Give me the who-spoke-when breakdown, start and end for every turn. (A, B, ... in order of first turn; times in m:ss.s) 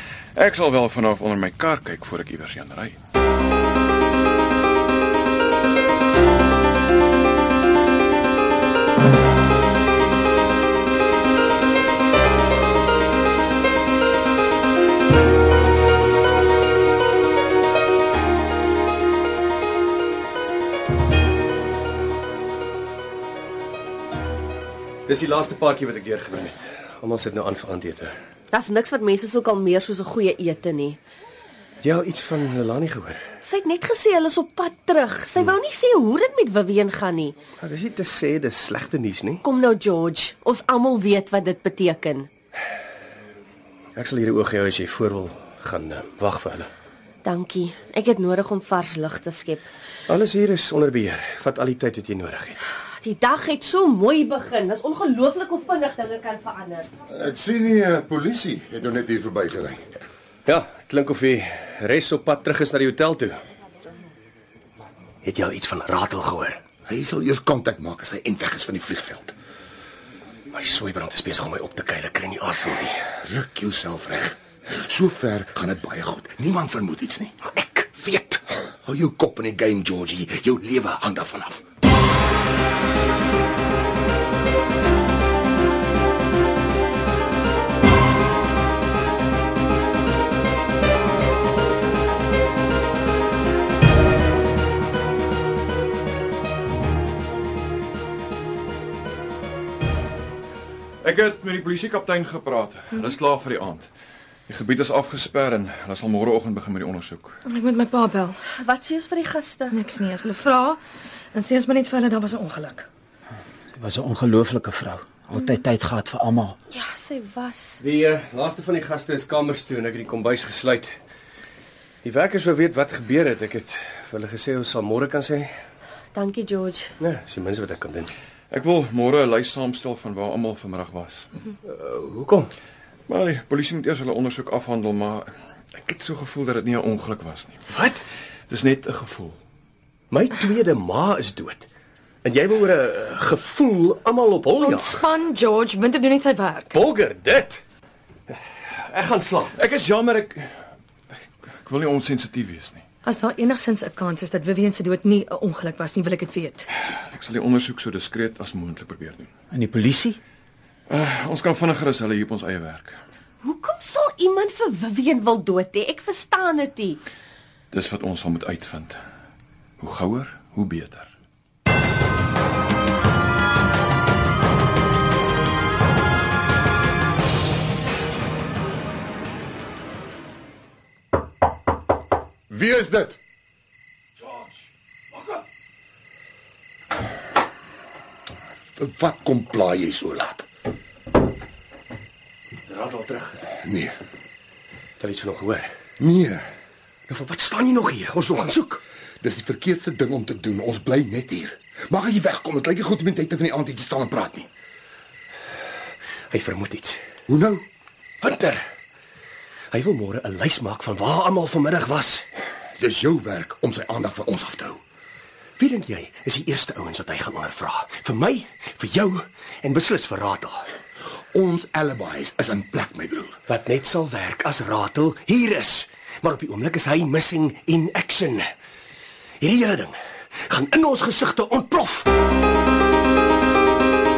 0:00.3-0:03.0 A
0:25.1-0:28.1 B
0:28.5-0:31.0 C
0:31.8-0:33.2 B
0:33.4-0:37.4 C
0:37.6-0:39.4 B
0:39.4-0:42.3 C
0:44.0-0:46.7 B
0:47.2-0:49.7 C
0:50.1-0:52.6 B
0:53.0-0:56.9 C
0:57.1-0:59.8 D
1:00.4-1:03.4 B
1:05.2-1:06.6 B
1:06.9-1:09.3 D
1:10.5-1:13.0 B
1:13.2-1:17.4 D
1:17.4-1:18.4 B
1:18.7-1:21.6 D
1:41.0-1:43.9 A
1:44.5-1:47.4 A
1:47.4-1:48.4 E
1:48.5-1:49.8 C
1:49.7-1:50.8 E
1:51.3-1:52.9 E
1:53.8-1:56.5 F
1:56.7-1:57.8 C
1:57.8-2:00.9 B
2:02.0-2:05.5 B
2:06.1-2:06.9 C
2:07.0-2:08.1 B
2:08.5-2:11.3 A
2:11.6-2:12.5 B
2:13.1-2:17.6 A
2:17.7-2:18.0 B
2:18.5-2:19.4 A
2:20.1-2:21.7 B
2:22.2-2:25.0 B
2:24.6-2:26.7 E
2:26.7-2:27.6 B
2:28.3-2:29.5 B
2:29.6-2:30.5 A
2:31.6-2:32.8 A
2:33.0-2:36.7 E
2:37.1-2:39.3 A
2:39.5-2:40.2 F
2:40.9-2:43.0 A
2:43.4-2:47.0 C
2:47.7-2:49.0 A
2:49.8-2:51.1 A
3:02.5-3:03.2 D
3:08.8-3:10.4 D
3:12.6-3:13.5 B
3:13.6-3:14.0 D
3:15.0-3:15.7 B
3:16.0-3:16.4 D
3:17.1-3:18.8 B
3:19.2-3:24.5 D
3:26.3-3:27.0 B
3:27.3-3:27.6 D
3:28.2-3:28.6 B
3:29.7-3:32.3 B
3:32.8-3:34.8 D
3:35.6-3:40.6 B
3:41.3-3:43.4 D
3:43.5-3:48.4 B
3:49.4-3:49.9 B
3:50.5-3:52.1 B